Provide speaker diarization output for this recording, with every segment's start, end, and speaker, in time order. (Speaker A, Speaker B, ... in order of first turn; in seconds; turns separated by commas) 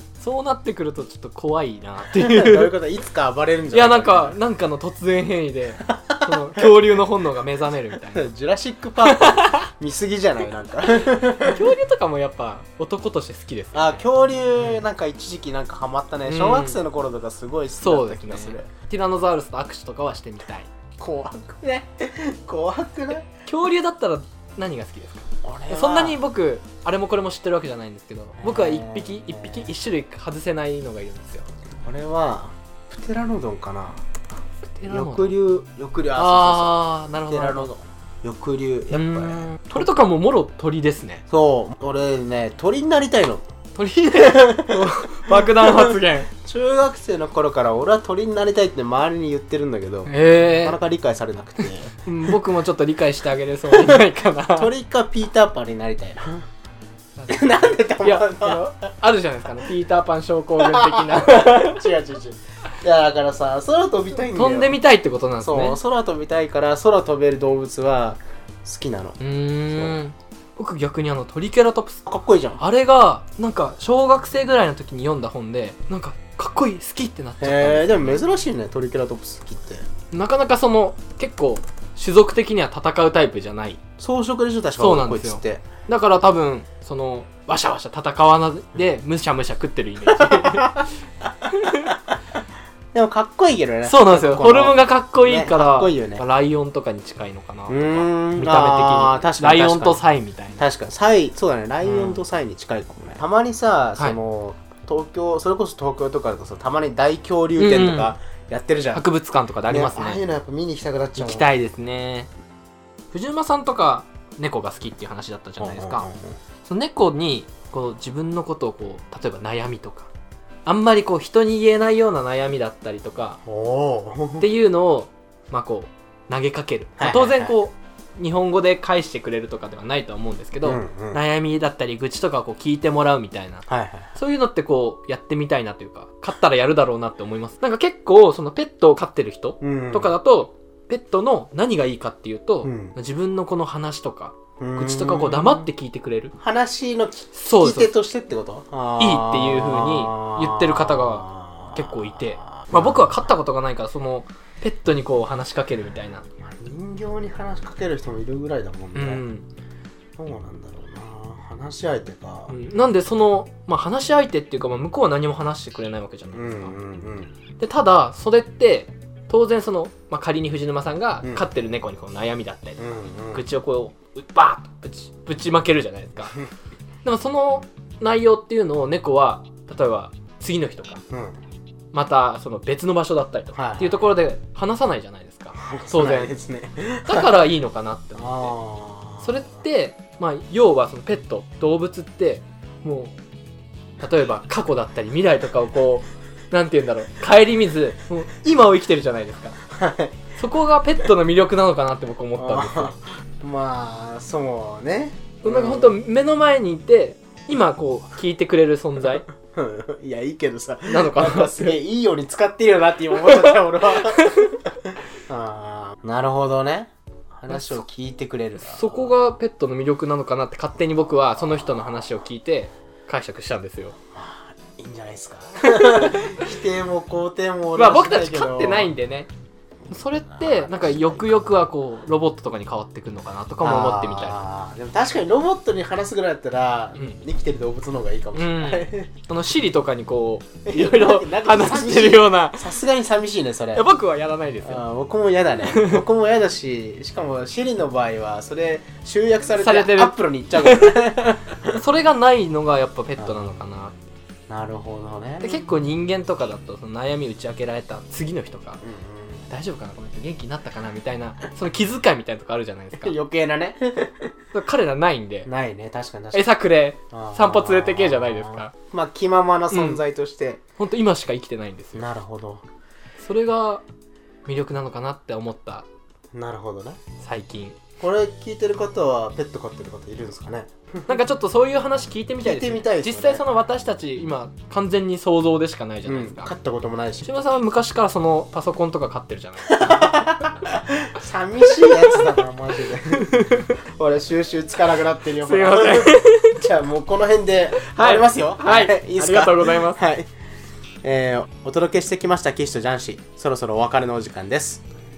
Speaker A: 0.2-2.7, Speaker B: 2.1-4.4, Speaker A: 3.7-8.3, Speaker B: 6.0-6.7, Speaker B: 8.1-11.7, Speaker A: 9.0-9.7, Speaker A: 11.0-14.8, Speaker B: 13.7-18.7, Speaker A: 16.2-16.8, Speaker A: 17.8-20.7, Speaker B: 21.0-23.2, Speaker A: 23.4-31.4, Speaker B: 25.4-26.2, Speaker B: 28.4-29.7, Speaker B: 31.8-34.0, Speaker A: 34.6-35.4, Speaker B: 34.9-39.9, Speaker A: 36.1-37.7, Speaker A: 38.9-41.2, Speaker B: 41.3-43.4, Speaker A: 43.8-46.3, Speaker B: 44.1-52.3, Speaker A: 50.1-50.8, Speaker A: 51.6-54.7, Speaker B: 53.7-56.4, Speaker A: 57.1-57.5, Speaker B: 57.3-58.7, Speaker A: 58.0-61.9, Speaker B: 60.6-64.8, Speaker A: 64.3-65.8, Speaker B: 65.4-69.2, Speaker A: 69.2-72.0, Speaker B: 69.7-70.0, Speaker B: 72.0-72.6, Speaker A: 72.6-78.2, Speaker B: 77.4-79.8, Speaker A: 80.1-83.8, Speaker B: 84.0-85.7, Speaker A: 84.8-90.9, Speaker B: 90.1-90.8, Speaker A: 91.5-92.0, Speaker B: 92.9-96.2, Speaker A: 93.8-100.6, Speaker B: 97.7-100.0, Speaker B: 100.6-109.0, Speaker A: 101.8-102.2, Speaker A: 107.6-108.1, Speaker A: 108.9-110.2, Speaker B: 109.7-111.5, Speaker A: 111.2-112.3, Speaker A: 113.1-116.0, Speaker B: 115.6-116.4, Speaker A: 116.6-120.1, Speaker A: 120.7-123.4, Speaker B: 123.4-124.5, Speaker A: 124.4-146.3, Speaker B: 127.0-127.5, Speaker B: 130.6-131.2, Speaker B: 133.7-134.1, Speaker B: 139.6-140.1, Speaker B: 142.6-142.9, Speaker B: 144.6-145.7, Speaker B: 146.4-153.3, Speaker A: 147.3-147.9, Speaker A: 149.0-156.2, Speaker B: 156.4-159.2, Speaker A: 158.9-159.4, Speaker B: 160.2-162.6, Speaker A: 162.5-166.7, Speaker B: 166.3-167.3, Speaker A: 167.6-176.3, Speaker B: 172.8-173.4, Speaker A: 177.0-181.0, Speaker B: 181.1-181.4, Speaker A: 181.9-186.3, Speaker B: 183.5-184.1, Speaker B: 185.5-187.3, Speaker A: 187.1-188.5, Speaker B: 188.1-189.6, Speaker A: 189.2-193.1, Speaker A: 194.0-199.6, Speaker B: 199.7-200.2, Speaker A: 200.4-202.9, Speaker B: 202.3-206.0, Speaker A: 205.4-209.2, Speaker B: 209.5-219.1, Speaker A: 210.9-211.8, Speaker A: 213.2-214.6, Speaker A: 217.5-217.8, Speaker A: 218.6-223.9, Speaker B: 221.3-222.0, Speaker B: 224.1-228.9, Speaker A: 225.6-226.4, Speaker A: 227.7-229.3, Speaker A: 229.9-234.4, Speaker B: 230.1-231.7, Speaker B: 233.6-239.1, Speaker A: 238.3-242.7, Speaker B: 240.7-243.9, Speaker A: 243.7-244.8, Speaker B: 244.6-251.8, Speaker A: 245.7-246.0, Speaker A: 249.6-251.0, Speaker A: 251.7-253.9, Speaker B: 253.2-253.5, Speaker B: 254.5-255.7, Speaker A: 255.4-258.8, Speaker B: 258.8-259.4, Speaker A: 259.5-263.1, Speaker B: 262.9-264.3, Speaker A: 264.5-265.5, Speaker B: 265.4-266.6, Speaker A: 266.3-268.7, Speaker B: 267.1-270.6, Speaker A: 269.7-270.0, Speaker A: 270.8-272.0, Speaker B: 271.9-272.6, Speaker A: 273.2-273.8, Speaker A: 274.4-275.9, Speaker B: 276.3-277.0, Speaker A: 277.2-277.8, Speaker B: 278.0-281.2, Speaker A: 281.1-286.5, Speaker B: 282.4-283.4, Speaker B: 286.1-287.3, Speaker A: 287.2-289.9, Speaker B: 289.7-300.3, Speaker A: 291.7-292.3, Speaker A: 293.1-293.7, Speaker A: 295.4-296.6, Speaker A: 297.8-300.0, Speaker B: 301.0-304.8